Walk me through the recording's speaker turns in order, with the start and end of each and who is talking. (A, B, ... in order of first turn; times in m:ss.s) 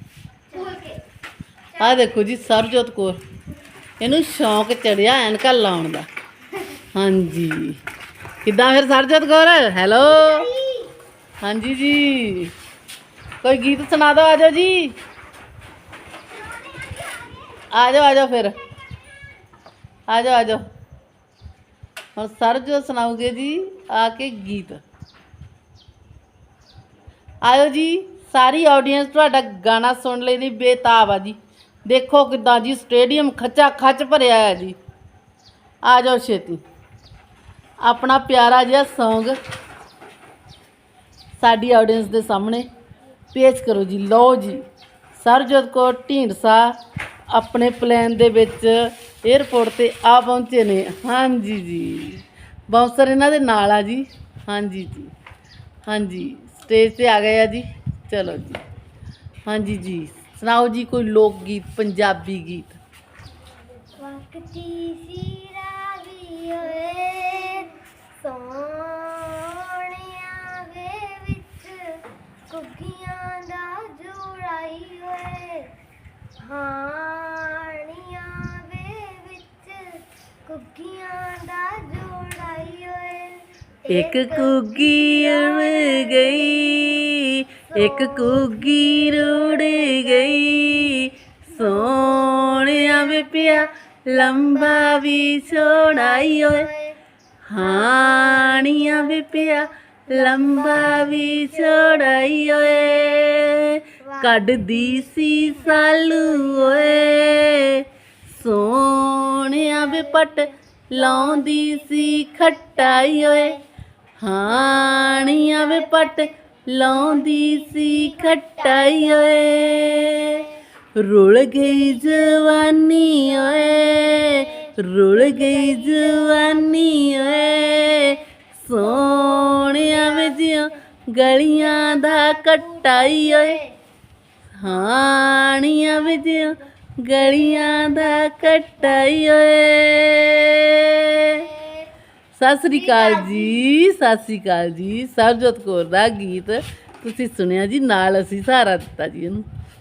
0:00.5-0:01.0 A
0:01.8-0:03.2 B
0:04.0-0:06.1 B
0:06.9-0:07.8 B
0:08.4-0:10.5 B
0:10.0-0:10.9 A
0:11.4-0:12.5 B
0:13.4-0:15.0 B
0:16.5-0:17.6 A
0:17.7-0:18.6 B
0:20.1-0:20.6 B
0:22.2-0:24.8 B
0:27.4-0:34.8 B
0:35.8-0:36.6 B
0:37.8-0:39.4 B
0:41.4-0:42.7 B
0:43.3-0:44.6 B
0:45.2-0:46.7 B
0:47.3-0:55.1 B
0:55.9-0:58.6 B
0:59.5-1:02.8 B
1:04.0-1:15.7 A
1:16.4-1:26.7 A
1:23.9-1:36.7 B
1:27.7-1:30.3 A
1:31.6-1:35.1 A
1:35.7-1:37.0 A
1:37.5-1:53.6 B
1:37.6-1:39.5 A
1:40.1-1:42.0 A
1:44.0-1:47.0 A
1:49.6-1:50.4 A
1:51.0-1:53.6 A
1:54.2-2:13.6 B
1:54.6-1:56.2 A
1:57.0-1:59.3 A
2:00.0-2:00.6 A
2:03.1-2:08.2 A
2:08.8-2:10.6 A
2:11.6-2:13.8 A
2:14.6-2:21.5 B
2:21.4-2:21.9 A
2:22.4-2:29.5 B
2:22.8-2:23.6 A